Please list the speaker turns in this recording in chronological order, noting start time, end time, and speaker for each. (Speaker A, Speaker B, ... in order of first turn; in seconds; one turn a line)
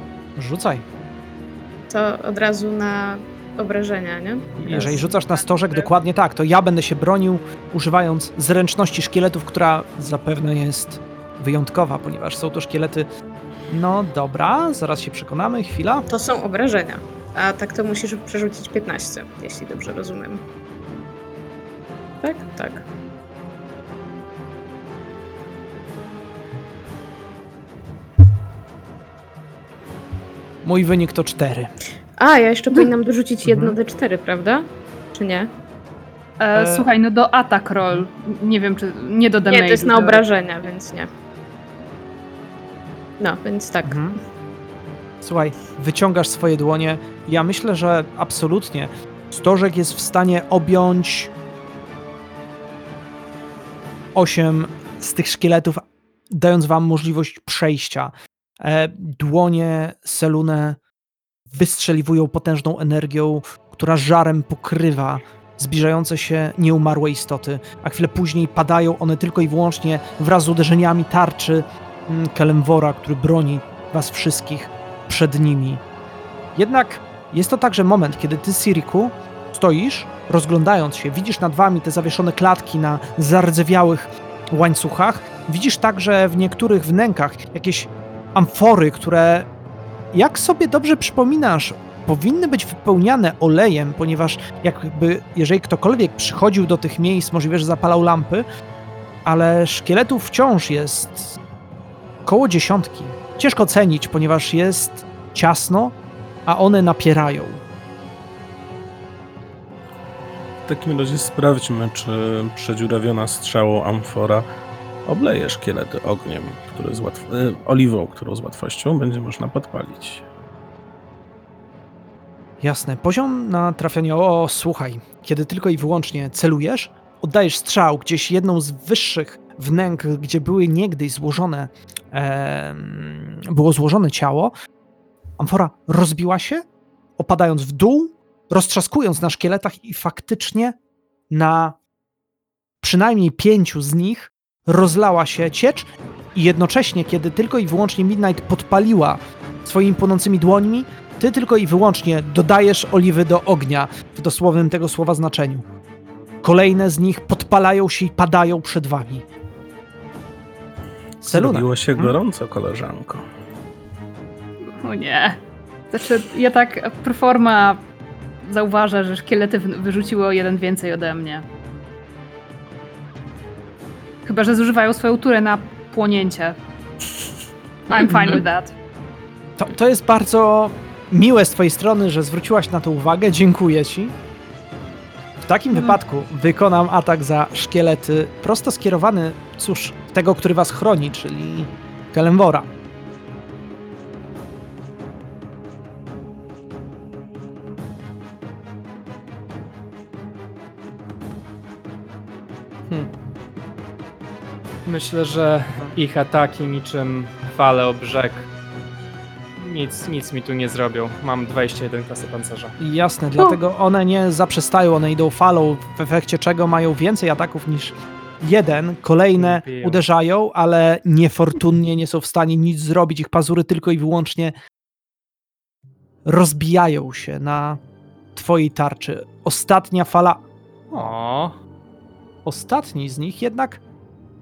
Speaker A: 0.4-0.8
Speaker B: 1.9-5.1
Speaker A: 4.6-13.1
Speaker A: 13.7-16.1
Speaker B: 16.1-20.4
Speaker B: 22.2-22.9
Speaker A: 30.6-31.7
Speaker B: 32.2-35.5
Speaker A: 33.5-33.8
Speaker C: 36.4-40.2
Speaker A: 36.5-36.9
Speaker B: 39.5-41.1
Speaker B: 43.2-44.1
Speaker A: 43.9-44.2
Speaker A: 45.2-51.3
Speaker A: 54.1-60.8
Speaker A: 61.5-75.8
Speaker A: 76.6-89.5
Speaker A: 90.1-98.5
Speaker A: 99.2-101.4
Speaker A: 102.3-107.6
Speaker D: 110.7-114.5
Speaker D: 115.1-120.2
Speaker A: 122.6-134.5
Speaker A: 135.4-136.7
Speaker A: 137.2-140.8
Speaker A: 141.3-141.8
Speaker A: 142.8-155.7
Speaker A: 156.4-159.2
Speaker A: 161.2-162.2
Speaker D: 161.3-163.3
Speaker C: 164.8-165.4
Speaker C: 165.9-167.8
Speaker C: 168.4-171.5
Speaker C: 174.2-176.6
Speaker C: 177.9-178.7
Speaker A: 178.0-178.4
Speaker A: 179.6-184.1
Speaker A: 185.4-192.7
Speaker C: 185.7-186.0
Speaker E: 204.8-208.5
Speaker E: 209.6-212.8
Speaker A: 212.8-224.6
Speaker E: 219.3-220.0
Speaker A: 226.2-227.8
Speaker A: 228.3-231.1
Speaker E: 230.9-231.6
Speaker A: 232.4-233.8